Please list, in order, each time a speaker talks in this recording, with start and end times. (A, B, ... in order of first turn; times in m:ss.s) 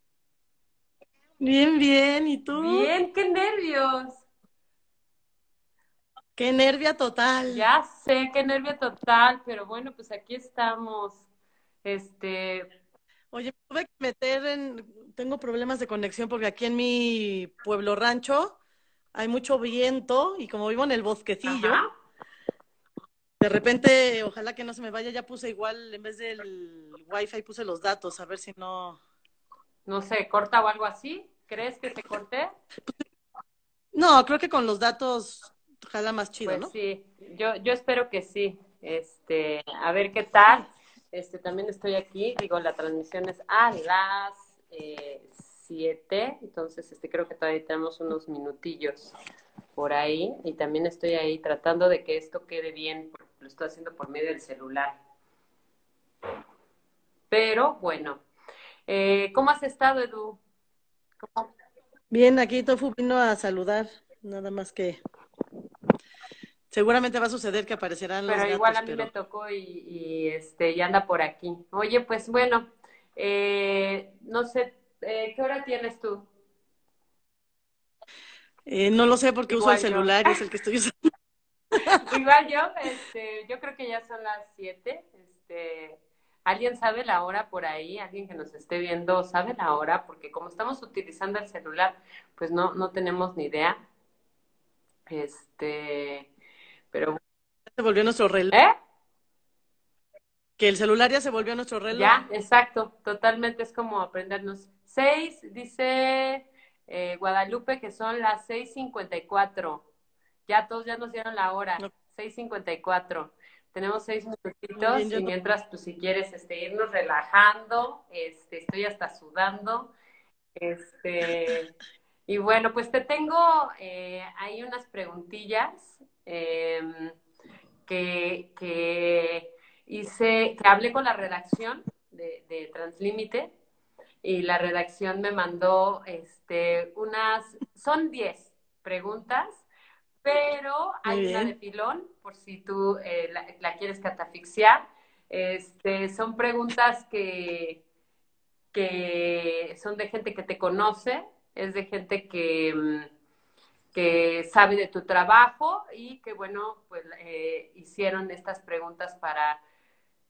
0:01.4-0:02.9 A
0:02.5-0:04.2 B
0:06.4-0:07.7 A
0:07.5-0:11.2 B
0:11.8-0:12.7 B
0:13.3-0:18.6 A
0:19.2-0:21.8 A
0:21.5-0:21.9 B
0:23.4-0:29.0 A
0:29.9-0:32.5 B
0:33.9-0:36.7 A
0:36.4-0:49.1 B
0:49.8-0:55.0 B
0:57.3-0:58.2 B
0:58.9-1:00.4 B
1:01.2-1:01.5 B
1:02.1-1:05.0 A
1:06.7-1:09.1 A
1:08.3-1:16.3 B
1:18.7-1:20.9 A
1:19.5-1:20.4 B
1:21.7-1:22.0 A
1:22.0-1:33.8 B
1:35.1-1:36.3 B
1:36.9-1:37.2 B
1:37.7-1:38.6 A
1:40.6-1:42.2 A
1:41.9-1:49.9 B
1:50.5-1:59.9 B
1:54.8-1:55.3 A
2:00.6-2:01.7 B
2:02.3-2:07.2 B
2:07.9-2:13.5 B
2:14.2-2:19.7 B
2:20.2-2:27.8 B
2:21.1-2:21.5 A
2:28.7-2:33.1 B
2:33.9-2:39.6 B